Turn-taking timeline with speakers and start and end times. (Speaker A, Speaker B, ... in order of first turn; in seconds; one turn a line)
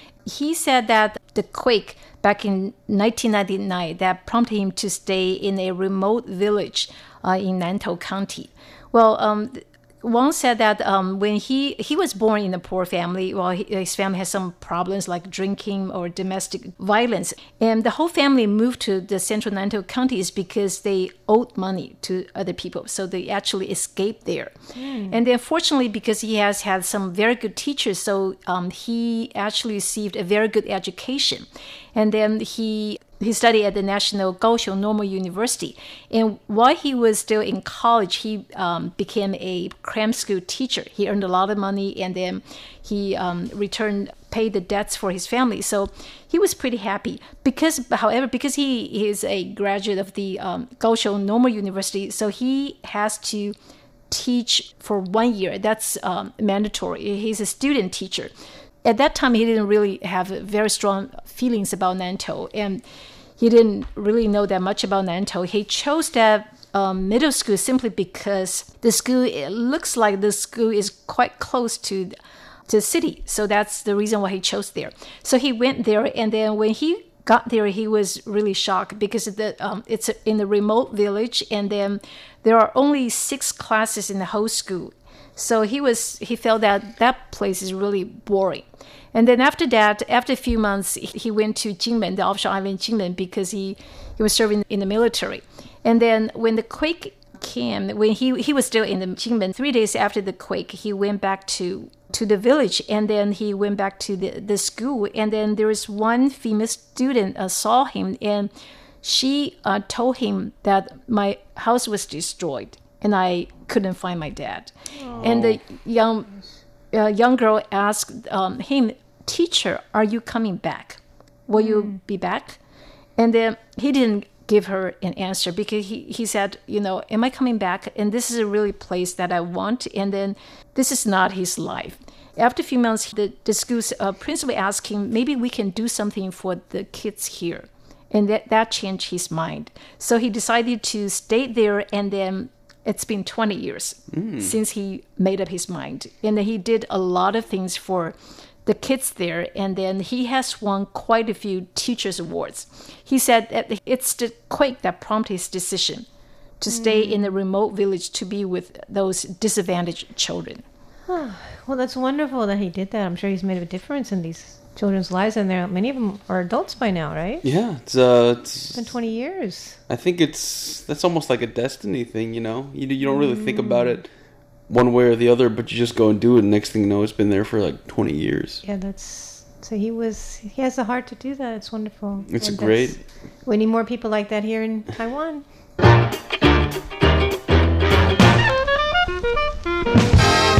Speaker A: 0.2-24.6
Speaker B: 24.7-25.2
Speaker A: 25.1-53.5
Speaker A: 54.1-58.3
Speaker A: 58.8-62.8
Speaker A: 63.4-72.2
Speaker A: 72.7-108.5
Speaker A: 109.0-116.3
Speaker B: 115.0-115.4
Speaker C: 115.2-115.6
Speaker A: 116.9-122.6
Speaker B: 121.5-122.0
Speaker A: 123.2-156.1
Speaker C: 144.1-144.5
Speaker A: 156.6-160.6
Speaker B: 156.7-157.3
Speaker B: 161.1-167.4
Speaker C: 167.4-169.0
Speaker B: 168.7-169.8
Speaker C: 169.9-174.1
Speaker B: 173.0-174.0
Speaker C: 174.7-178.6
Speaker B: 178.6-185.4
Speaker C: 182.3-183.0